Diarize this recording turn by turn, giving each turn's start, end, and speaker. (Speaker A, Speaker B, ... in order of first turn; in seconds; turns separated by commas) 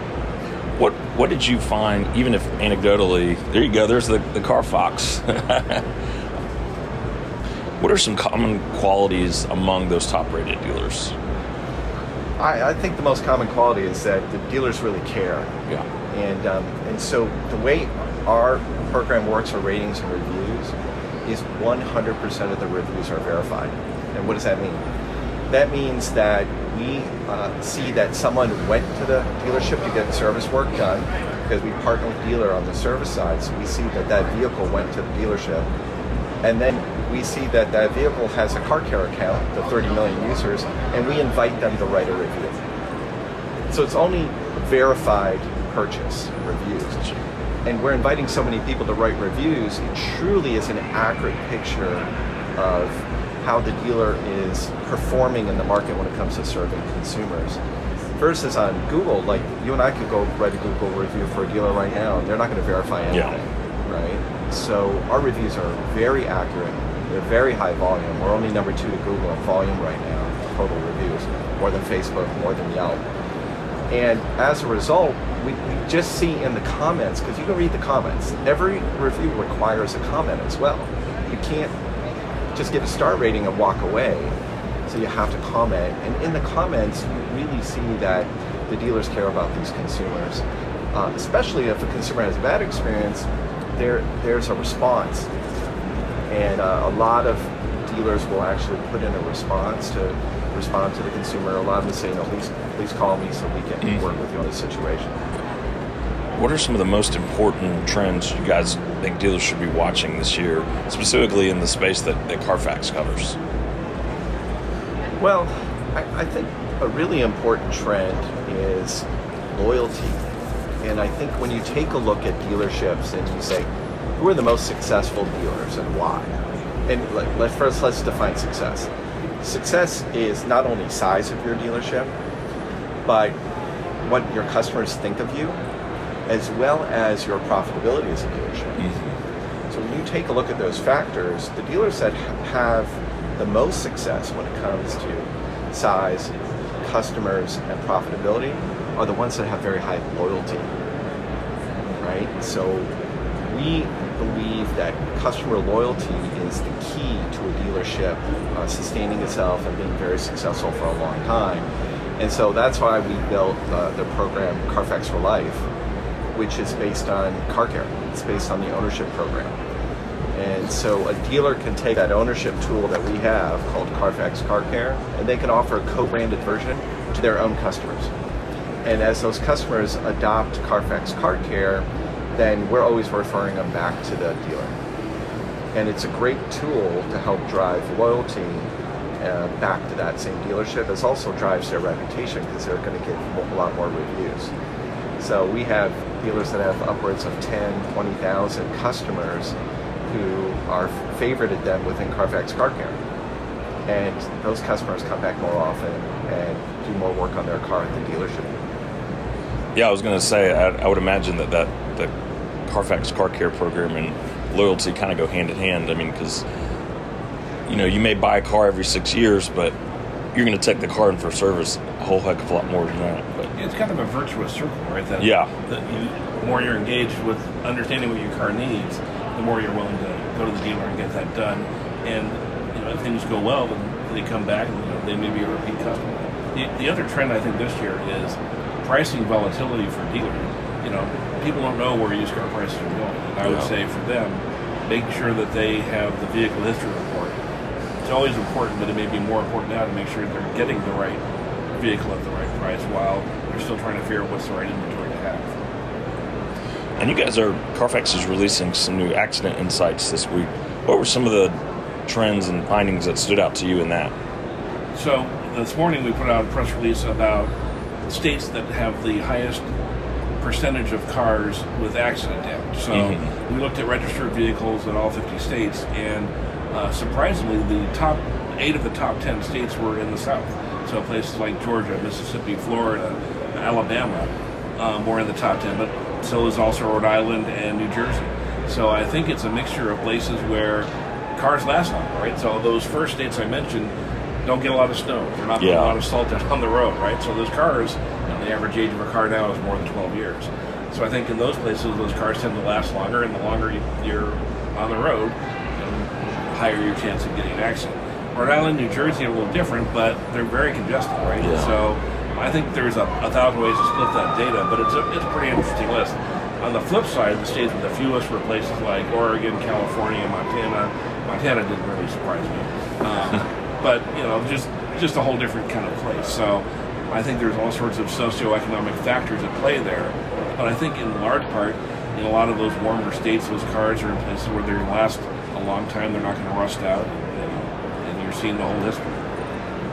Speaker A: 0.8-5.8, Speaker A: 7.8-11.1, Speaker B: 12.4-15.5, Speaker B: 16.1-20.7, Speaker B: 21.2-24.8, Speaker B: 25.5-35.7, Speaker B: 36.4-42.6, Speaker B: 43.7-47.0, Speaker B: 47.6-57.6, Speaker B: 58.2-73.0, Speaker B: 73.9-81.7, Speaker B: 82.5-84.3, Speaker B: 84.9-95.3, Speaker B: 96.3-105.2, Speaker A: 106.3-113.4, Speaker B: 115.2-120.2, Speaker B: 120.8-128.9, Speaker B: 129.4-132.1, Speaker B: 133.1-133.4, Speaker B: 134.0-135.6, Speaker B: 136.3-138.8, Speaker A: 138.8-139.1, Speaker B: 139.7-150.7, Speaker B: 152.0-152.9, Speaker B: 153.4-161.7, Speaker B: 162.2-165.6, Speaker B: 166.3-169.5, Speaker B: 170.3-178.1, Speaker B: 178.8-184.7, Speaker B: 185.7-188.7, Speaker B: 189.2-194.5, Speaker B: 195.2-199.5, Speaker B: 200.1-203.0, Speaker B: 203.9-208.5, Speaker A: 209.7-212.1, Speaker A: 212.7-216.4, Speaker A: 217.7-219.7, Speaker A: 220.3-223.5, Speaker C: 223.5-247.4, Speaker A: 225.2-225.5, Speaker A: 243.4-243.7, Speaker C: 248.0-251.2, Speaker C: 251.8-255.5, Speaker A: 257.0-261.6, Speaker A: 262.1-264.1, Speaker C: 264.9-267.5, Speaker C: 268.1-269.6, Speaker C: 270.4-293.9, Speaker A: 272.9-273.3, Speaker C: 294.4-339.2, Speaker A: 295.6-296.0, Speaker A: 311.4-311.8